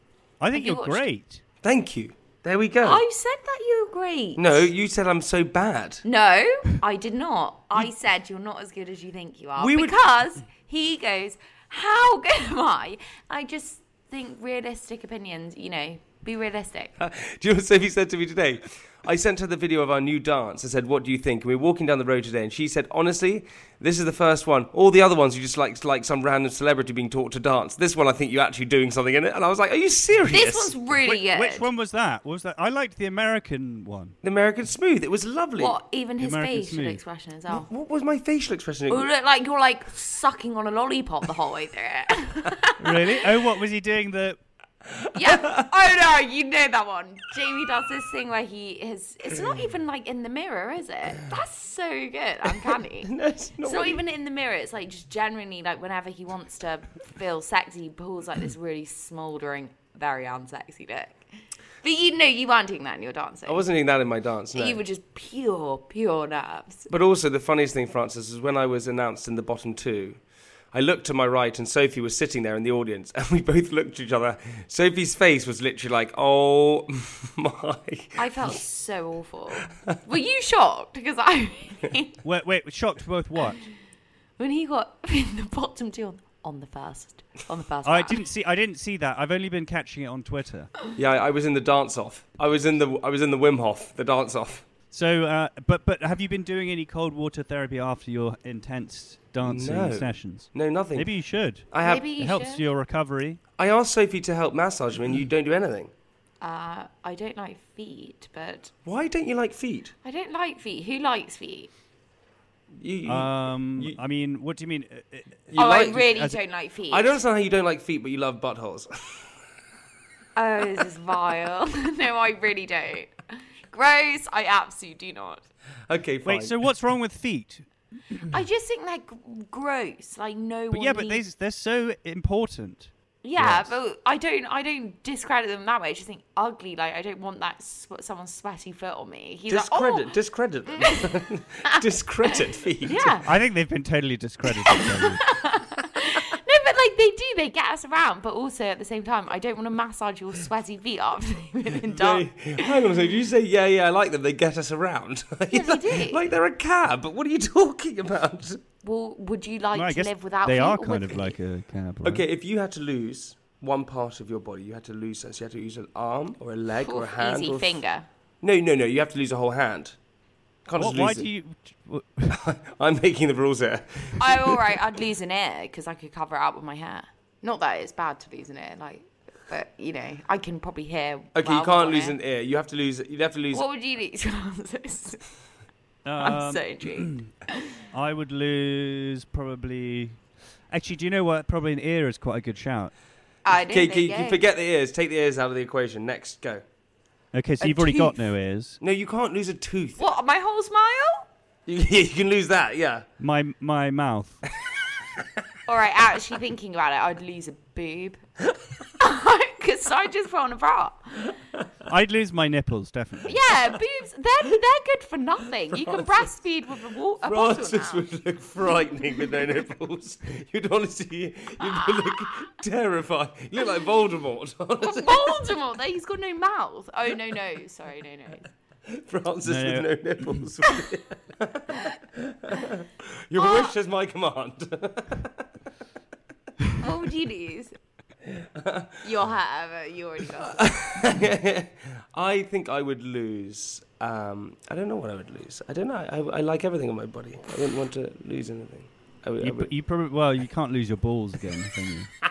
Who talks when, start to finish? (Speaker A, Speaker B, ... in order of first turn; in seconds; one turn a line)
Speaker A: 0.4-1.4
Speaker B: 0.5-1.0
Speaker C: 1.6-3.0
Speaker B: 2.8-4.7
Speaker C: 4.4-6.0
Speaker B: 6.0-16.9
Speaker C: 9.6-10.0
Speaker C: 17.0-30.7
Speaker B: 30.3-31.7
Speaker A: 31.0-34.1
Speaker C: 34.2-35.8
Speaker B: 35.6-37.7
Speaker A: 36.2-37.0
Speaker C: 37.5-39.1
Speaker B: 38.9-43.2
Speaker A: 42.8-44.4
Speaker B: 45.1-61.2
Speaker C: 53.0-54.0
Speaker B: 61.8-63.6
Speaker C: 63.5-64.8
Speaker B: 64.5-66.9
Speaker C: 66.9-70.2
Speaker C: 70.7-78.6
Speaker B: 78.2-82.2
Speaker A: 82.2-83.6
Speaker B: 84.4-88.2
Speaker A: 87.8-90.8
Speaker C: 90.9-94.7
Speaker A: 94.9-103.4
Speaker C: 99.4-101.1
Speaker C: 101.7-102.1
Speaker B: 101.8-102.6
Speaker C: 103.6-105.9
Speaker B: 106.4-108.7
Speaker C: 108.8-109.9
Speaker B: 110.0-111.7
Speaker C: 112.8-114.0
Speaker A: 113.0-116.4
Speaker C: 115.5-116.0
Speaker B: 115.5-117.2
Speaker C: 116.9-119.2
Speaker B: 120.3-125.4
Speaker C: 125.9-126.5
Speaker A: 126.2-128.3
Speaker B: 128.3-131.2
Speaker A: 130.7-133.8
Speaker B: 133.2-140.1
Speaker C: 139.5-143.2
Speaker B: 140.8-141.1
Speaker B: 142.8-143.3
Speaker A: 143.2-145.2
Speaker B: 144.6-152.7
Speaker C: 151.8-158.6
Speaker B: 155.5-156.2
Speaker B: 158.8-161.3
Speaker A: 159.7-162.2
Speaker C: 162.0-167.8
Speaker B: 166.8-168.1
Speaker C: 168.4-169.9
Speaker C: 170.7-171.3
Speaker A: 170.8-172.4
Speaker C: 172.3-174.6
Speaker B: 174.2-182.2
Speaker C: 181.3-183.6
Speaker B: 183.5-185.2
Speaker A: 186.0-187.3
Speaker B: 186.2-187.7
Speaker A: 187.9-192.9
Speaker B: 193.4-194.4
Speaker C: 193.7-196.6
Speaker A: 197.3-198.8
Speaker B: 197.6-198.3
Speaker C: 198.8-200.0
Speaker B: 200.0-201.2
Speaker C: 201.7-203.1
Speaker A: 203.2-204.4
Speaker B: 205.7-208.2
Speaker B: 209.0-211.3
Speaker A: 211.8-213.4
Speaker B: 213.2-218.1
Speaker C: 215.9-216.2
Speaker C: 217.2-225.4
Speaker B: 221.6-222.3
Speaker B: 224.8-228.5
Speaker C: 228.9-235.4
Speaker A: 229.4-230.4
Speaker B: 233.3-233.7
Speaker B: 236.8-237.8
Speaker C: 238.3-239.0
Speaker B: 239.0-240.8
Speaker C: 240.5-249.7
Speaker A: 249.4-252.1